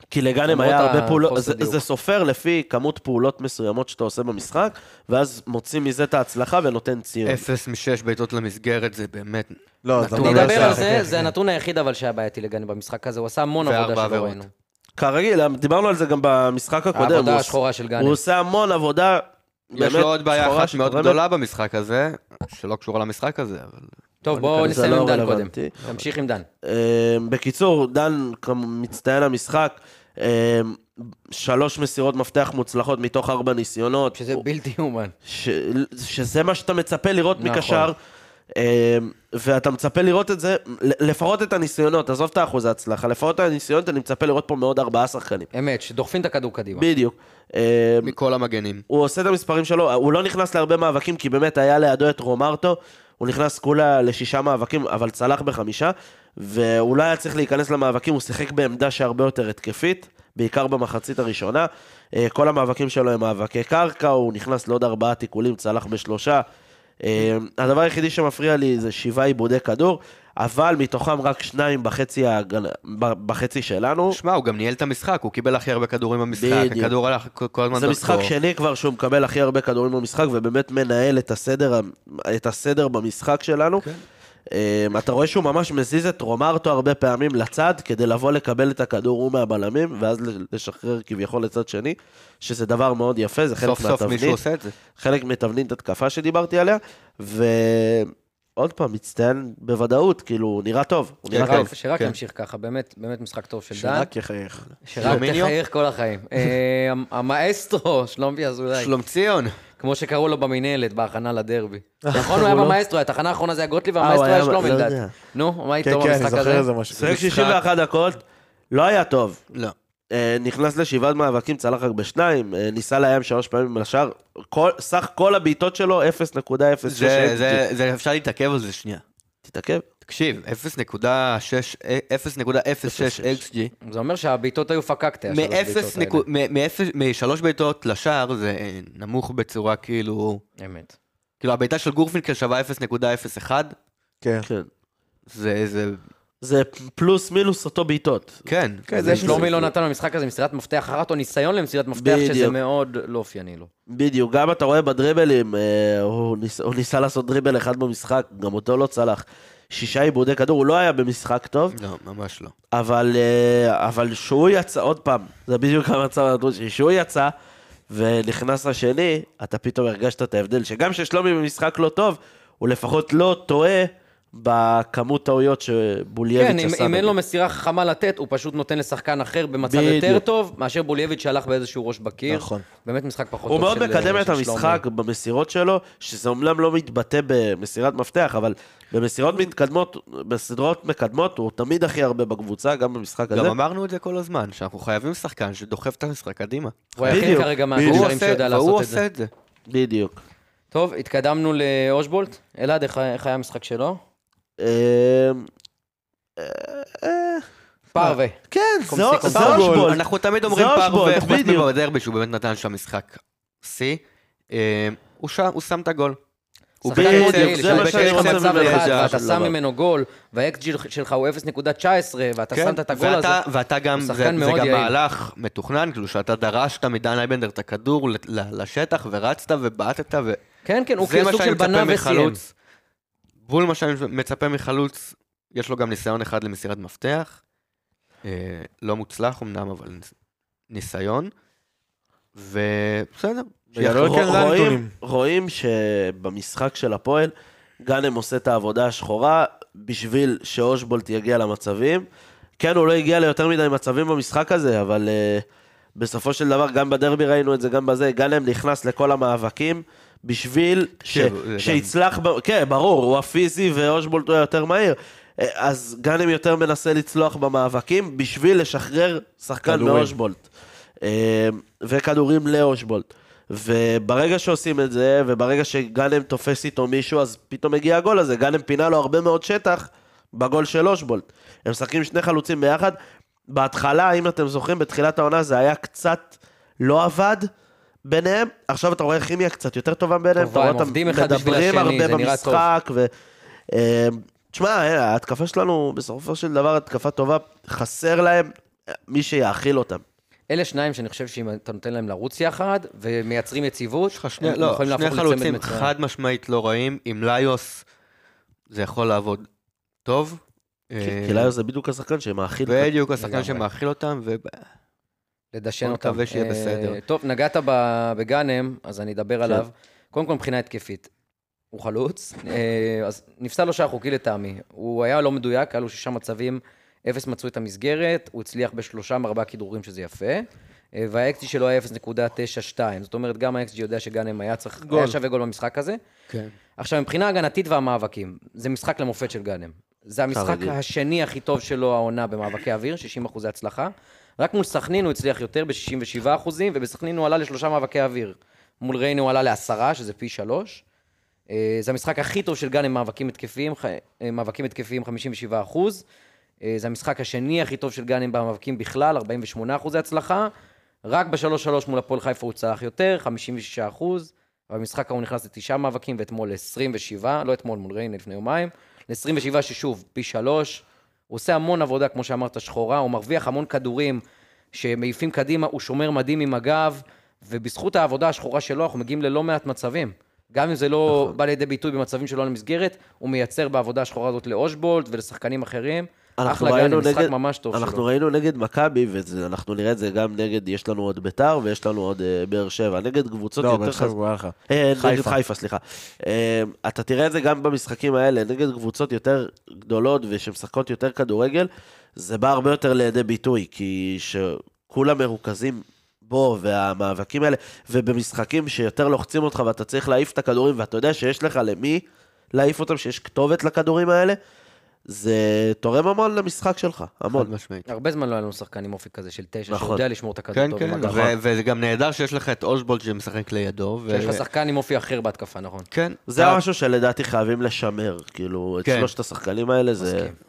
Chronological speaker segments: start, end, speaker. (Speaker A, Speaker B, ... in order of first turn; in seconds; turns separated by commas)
Speaker A: 0.1-7.4, Speaker B: 0.5-1.8, Speaker C: 7.2-10.9, Speaker D: 9.8-11.3, Speaker B: 10.2-14.5, Speaker C: 13.6-14.5, Speaker A: 15.0-21.2, Speaker B: 16.9-18.2, Speaker C: 19.7-23.9, Speaker B: 24.2-26.5, Speaker A: 24.3-25.9, Speaker A: 26.6-34.4, Speaker B: 34.1-35.1, Speaker A: 35.2-38.0, Speaker B: 37.4-37.9, Speaker A: 38.5-45.5, Speaker B: 45.5-46.9, Speaker A: 46.7-48.1, Speaker C: 48.0-48.8, Speaker A: 48.9-66.4, Speaker A: 67.0-74.2, Speaker C: 74.1-78.3, Speaker A: 76.3-76.9, Speaker A: 77.7-83.8, Speaker A: 84.5-94.4, Speaker C: 93.6-94.7, Speaker A: 94.9-101.7, Speaker C: 101.3-102.1, Speaker B: 101.4-104.1, Speaker D: 103.7-104.7, Speaker B: 104.8-108.9, Speaker C: 105.0-105.5, Speaker C: 108.7-109.5, Speaker B: 109.8-116.7, Speaker D: 112.0-112.3, Speaker A: 112.1-112.8, Speaker A: 114.0-115.1, Speaker D: 115.8-117.4, Speaker A: 116.9-119.4, Speaker C: 117.0-117.6, Speaker A: 120.1-127.6, Speaker C: 126.8-129.0, Speaker A: 129.4-129.8, Speaker C: 130.0-133.7, Speaker A: 132.8-133.4, Speaker B: 133.8-136.2, Speaker C: 135.3-140.4, Speaker B: 140.6-140.9, Speaker C: 141.4-143.7, Speaker D: 144.2-144.5, Speaker C: 145.3-146.0, Speaker A: 146.4-148.4, Speaker C: 148.5-149.2, Speaker D: 148.9-149.4, Speaker A: 149.0-149.7, Speaker B: 149.0-153.7, Speaker A: 152.0-152.5, Speaker A: 153.9-161.8, Speaker C: 161.7-162.5, Speaker A: 162.7-167.3, Speaker A: 167.9-177.1, Speaker B: 176.3-184.8, Speaker A: 179.6-180.2, Speaker D: 182.3-182.6, Speaker A: 183.5-193.6, Speaker C: 193.3-199.3, Speaker B: 196.9-199.0, Speaker A: 197.0-198.1, Speaker A: 199.7-200.2, Speaker B: 200.7-204.0, Speaker A: 204.6-205.5, Speaker A: 206.4-207.4, Speaker B: 207.9-209.7, Speaker A: 208.5-211.7, Speaker D: 209.2-209.9, Speaker C: 209.3-216.2, Speaker C: 216.8-219.2, Speaker B: 216.8-223.4, Speaker A: 216.9-219.5, Speaker C: 222.5-230.4, Speaker B: 224.0-224.9, Speaker B: 230.6-232.4, Speaker C: 231.0-232.5, Speaker C: 233.4-237.4, Speaker C: 238.2-240.1, Speaker C: 240.7-241.3, Speaker C: 242.3-244.2, Speaker D: 243.7-244.9, Speaker A: 243.9-247.3, Speaker A: 247.8-252.1, Speaker A: 252.6-255.4, Speaker A: 255.9-270.4, Speaker C: 261.1-261.9, Speaker D: 269.6-270.1, Speaker A: 271.0-283.0, Speaker A: 283.5-287.5, Speaker A: 288.0-293.1, Speaker B: 290.4-292.7, Speaker A: 293.7-298.5, Speaker A: 299.1-300.0, Speaker B: 300.5-305.9, Speaker C: 304.1-307.8, Speaker C: 308.7-309.5, Speaker C: 310.0-311.5, Speaker A: 311.0-312.9, Speaker C: 312.6-314.6, Speaker B: 313.2-313.6, Speaker B: 315.5-321.1, Speaker C: 315.8-317.0, Speaker B: 321.7-336.0, Speaker D: 334.8-335.2, Speaker B: 336.8-350.8, Speaker A: 340.3-340.8, Speaker B: 351.5-356.0, Speaker B: 356.6-360.5, Speaker B: 361.1-374.2, Speaker B: 374.7-388.0, Speaker A: 381.1-381.3, Speaker A: 386.4-394.1, Speaker D: 393.6-395.4, Speaker A: 394.7-414.4, Speaker A: 415.1-417.5, Speaker C: 417.3-417.8, Speaker B: 417.9-421.3, Speaker A: 419.7-420.0, Speaker C: 420.5-424.4, Speaker B: 424.1-425.9, Speaker C: 425.9-426.6, Speaker A: 426.3-430.3, Speaker C: 428.8-429.1, Speaker B: 430.0-430.4